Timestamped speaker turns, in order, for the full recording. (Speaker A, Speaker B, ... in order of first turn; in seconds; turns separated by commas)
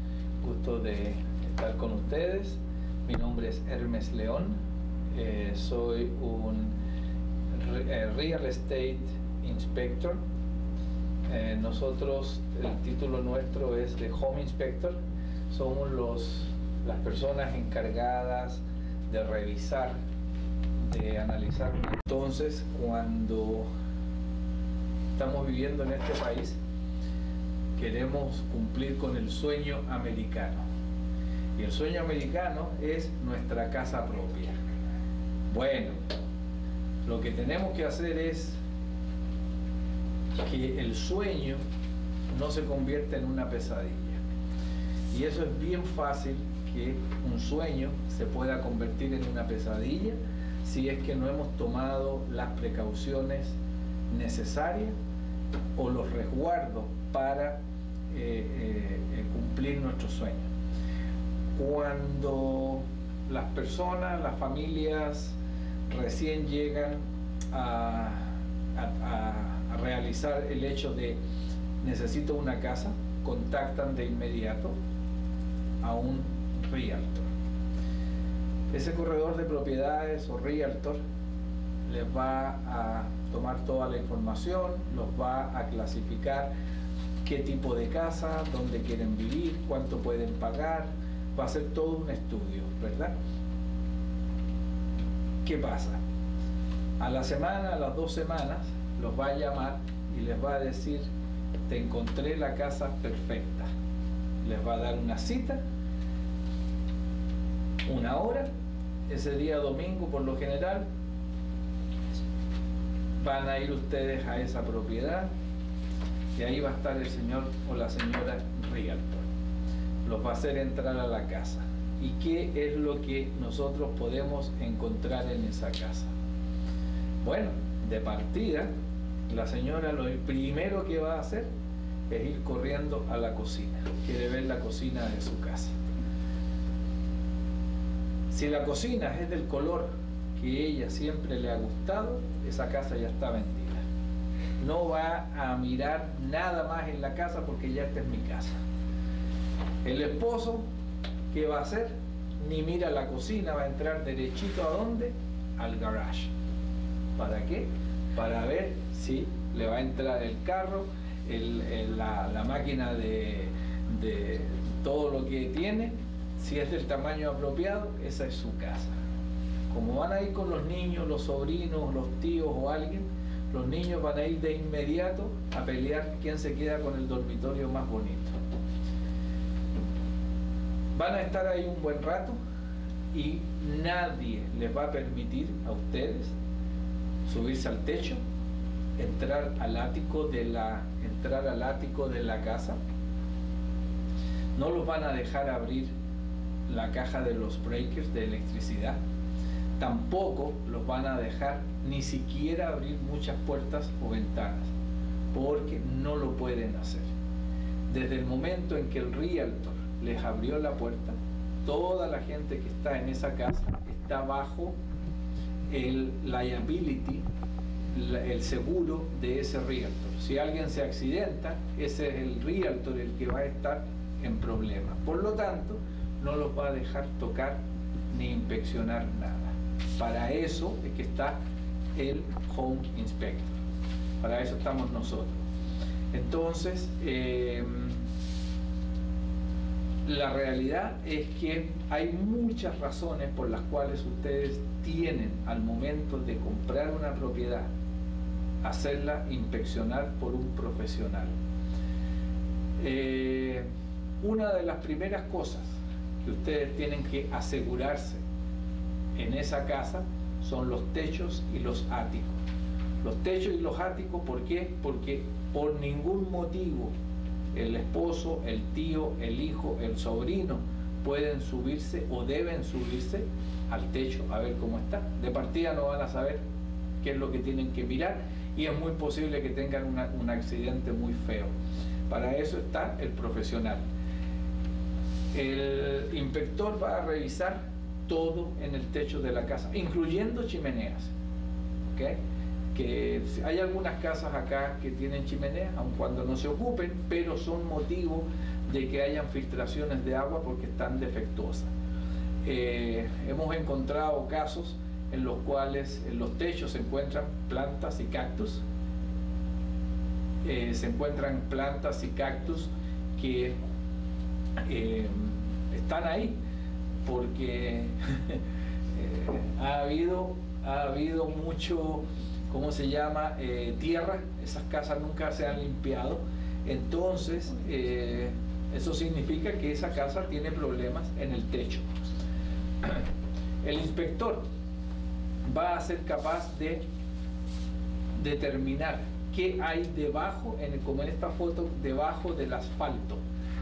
Speaker A: 0.4-4.6, Speaker A: 5.1-6.7, Speaker A: 7.5-10.2, Speaker A: 11.3-15.0, Speaker A: 15.5-20.0, Speaker A: 20.8-23.7, Speaker A: 25.1-26.6, Speaker A: 27.8-30.6, Speaker A: 31.6-34.5, Speaker A: 35.5-36.0, Speaker A: 37.0-38.6, Speaker A: 40.4-41.6, Speaker A: 42.3-44.2, Speaker A: 45.1-53.6, Speaker A: 54.1-54.9, Speaker A: 55.8-57.6, Speaker A: 58.1-60.5, Speaker A: 61.5-65.4, Speaker A: 65.9-71.2, Speaker A: 71.8-74.8, Speaker A: 75.8-77.3, Speaker A: 78.7-81.0, Speaker A: 81.8-86.5, Speaker A: 87.2-93.1, Speaker A: 95.4-96.0, Speaker A: 97.0-101.1, Speaker A: 101.7-103.7, Speaker A: 104.4-105.6, Speaker A: 107.8-108.5, Speaker A: 109.1-110.8, Speaker A: 113.2-115.3, Speaker A: 116.3-119.2, Speaker A: 120.0-126.1, Speaker A: 127.2-128.7, Speaker A: 129.3-131.5, Speaker A: 132.1-135.7, Speaker A: 138.3-143.8, Speaker A: 144.6-148.5, Speaker A: 149.8-150.6, Speaker A: 151.3-156.3, Speaker A: 157.2-168.9, Speaker A: 169.7-178.4, Speaker A: 180.9-182.4, Speaker A: 183.1-186.3, Speaker A: 187.2-188.2, Speaker A: 189.0-192.8, Speaker A: 194.5-195.9, Speaker A: 196.7-199.0, Speaker A: 199.8-204.7, Speaker A: 205.3-207.1, Speaker A: 207.9-214.7, Speaker A: 215.7-217.2, Speaker A: 217.9-227.6, Speaker A: 228.1-231.4, Speaker A: 231.9-233.6, Speaker A: 234.2-235.4, Speaker A: 236.1-238.0, Speaker A: 240.0-247.7, Speaker A: 248.6-251.3, Speaker A: 252.8-253.7, Speaker A: 254.2-258.2, Speaker A: 259.1-262.4, Speaker A: 263.0-266.9, Speaker A: 267.5-276.4, Speaker A: 277.0-281.5, Speaker A: 282.1-283.8, Speaker A: 285.3-291.1, Speaker A: 291.9-292.2, Speaker A: 292.7-301.7, Speaker A: 302.4-308.6, Speaker A: 310.4-313.6, Speaker A: 314.6-316.4, Speaker A: 317.0-318.4, Speaker A: 318.9-331.9, Speaker A: 333.6-334.4, Speaker A: 335.4-336.8, Speaker A: 338.2-343.2